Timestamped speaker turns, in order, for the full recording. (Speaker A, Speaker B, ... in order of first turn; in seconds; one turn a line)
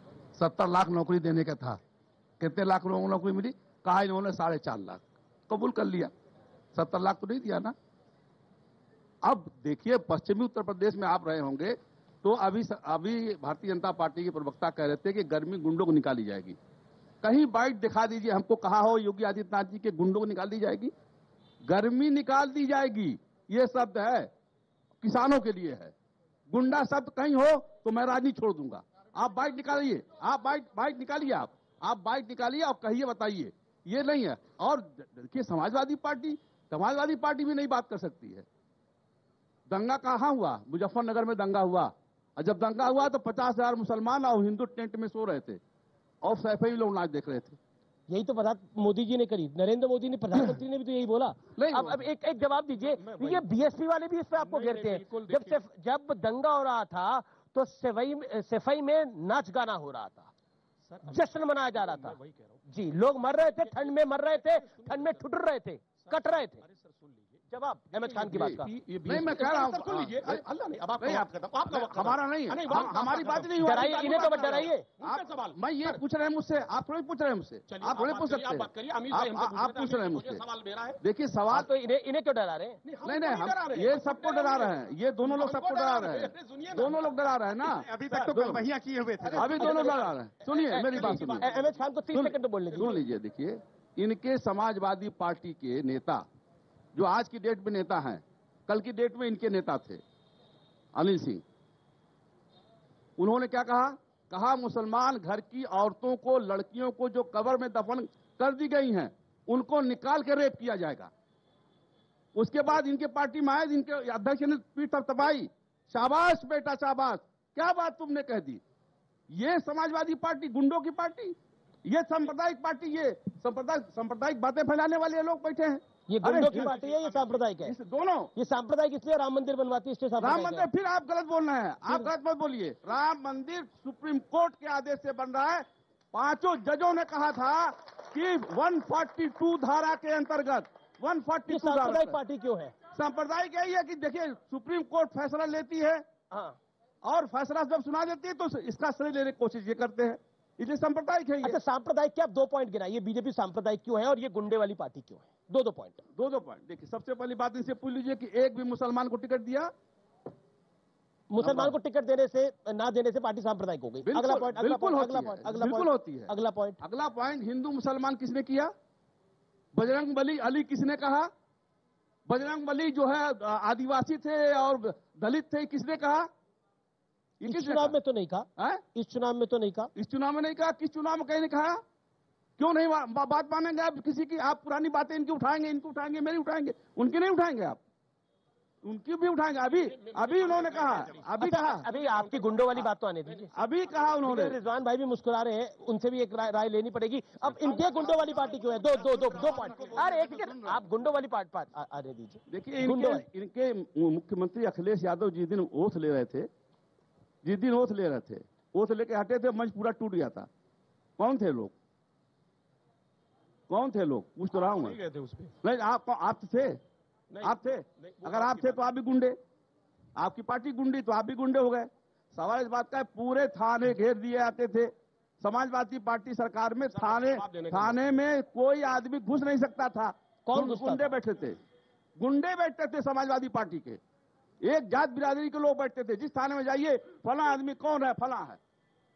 Speaker A: 0.3-1.8
Speaker A: 2.4-6.1
Speaker A: 6.7-7.7
Speaker A: 9.2-16.6
Speaker A: 17.2-20.9
Speaker A: 21.6-24.3
Speaker A: 25.0-25.9
Speaker A: 26.5-38.5
Speaker A: 39.7-45.6
Speaker A: 46.2-47.6
Speaker B: 48.1-60.3
Speaker A: 50.3-50.6
Speaker A: 51.6-52.0
Speaker C: 52.7-53.7
Speaker C: 54.4-55.6
Speaker C: 60.9-62.6
Speaker B: 61.1-66.6
Speaker C: 63.3-65.2
Speaker C: 66.0-76.0
Speaker B: 67.5-68.7
Speaker A: 68.3-70.4
Speaker A: 71.0-80.4
Speaker B: 73.6-74.9
Speaker C: 77.7-81.0
Speaker A: 81.0-81.7
Speaker B: 81.5-82.8
Speaker C: 82.8-87.2
Speaker A: 83.0-88.7
Speaker D: 87.6-90.0
Speaker C: 89.3-91.8
Speaker A: 89.3-91.5
Speaker B: 90.5-93.0
Speaker A: 92.1-96.2
Speaker A: 96.9-100.0
Speaker A: 101.0-101.4
Speaker A: 103.2-111.1
Speaker A: 112.3-118.6
Speaker A: 119.3-126.7
Speaker B: 126.1-127.8
Speaker C: 126.4-127.5
Speaker A: 127.6-128.3
Speaker B: 128.3-130.7
Speaker A: 130.2-142.2
Speaker B: 141.5-142.8
Speaker A: 142.9-146.0
Speaker B: 146.3-146.6
Speaker A: 147.0-151.6
Speaker B: 151.4-156.0
Speaker A: 156.2-159.7
Speaker B: 161.3-166.8
Speaker A: 161.4-161.7
Speaker A: 164.1-168.7
Speaker A: 169.7-171.3
Speaker A: 172.3-176.3
Speaker A: 177.4-177.9
Speaker B: 177.4-179.9
Speaker A: 178.6-178.8
Speaker A: 179.9-181.8
Speaker A: 182.6-187.8
Speaker A: 188.8-191.8
Speaker C: 189.6-194.1
Speaker D: 190.8-191.2
Speaker B: 191.4-193.5
Speaker A: 193.5-194.6
Speaker B: 194.2-203.2
Speaker C: 197.5-200.0
Speaker A: 197.8-198.3
Speaker D: 198.1-200.0
Speaker A: 199.5-200.8
Speaker A: 202.5-206.5
Speaker A: 207.4-210.5
Speaker A: 211.2-211.7
Speaker A: 213.7-215.0
Speaker C: 214.5-215.6
Speaker A: 215.6-216.8
Speaker C: 217.3-218.8
Speaker A: 217.4-219.3
Speaker A: 220.2-231.6
Speaker C: 226.9-228.0
Speaker B: 230.5-231.2
Speaker A: 232.2-234.0
Speaker A: 234.6-238.6